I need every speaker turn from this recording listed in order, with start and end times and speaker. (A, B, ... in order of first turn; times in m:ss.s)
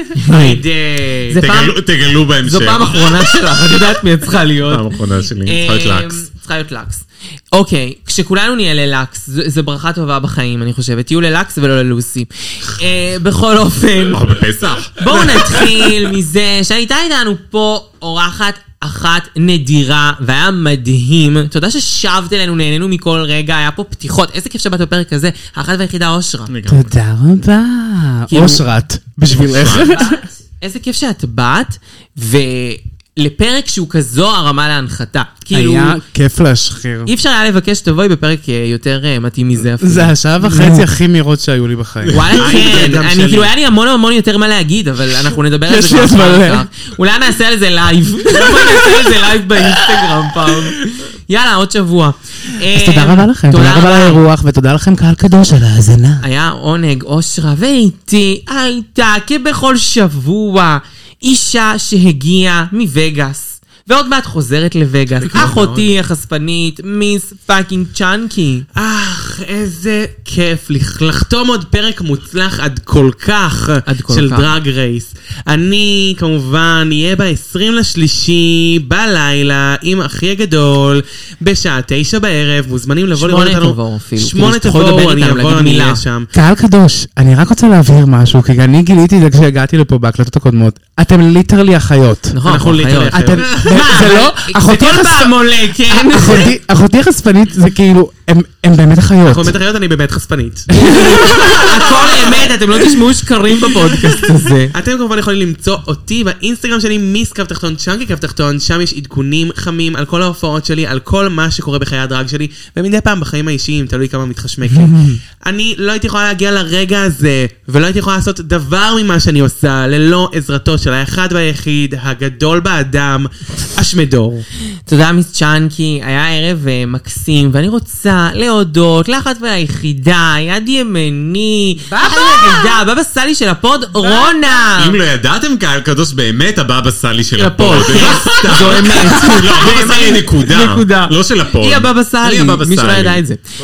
0:00.2-0:00.6 A
0:00.3-0:01.4 B
0:01.3-0:01.7 A
0:01.3-0:03.7 C
0:02.4-0:04.9 A
0:04.7-0:06.2 C
0:05.4-0:14.2 A
0:14.1-0:16.1 C
0:15.0-0:26.5 A
0:26.5-0:26.9 C
0:26.7-0:30.2 D
0:28.3-0:28.6 A
0:29.3-0:30.1 C
0:29.7-0:36.0 A
0:35.5-0:37.1 D
0:37.0-0:40.8 A
0:39.8-0:42.4 D
0:42.1-0:54.2 A
0:42.2-0:43.5 B
0:45.7-0:46.7 D
0:48.3-0:50.6 D
0:52.6-0:56.2 D
0:56.2-1:08.7 A
1:05.2-1:05.9 B
1:08.8-1:26.3 B
1:13.9-1:14.5 A
1:23.1-1:26.0 A
1:26.3-1:32.3 D
1:32.3-1:36.5 A
1:32.4-1:33.6 B
1:33.1-1:35.4 D
1:35.9-1:39.6 D
1:39.3-1:42.5 B
1:40.7-1:41.7 D
1:40.9-1:44.7 A
1:44.7-2:04.4 B
2:04.9-2:15.0 A
2:11.8-2:12.8 D
2:14.7-2:23.2 C
2:17.4-2:23.4 A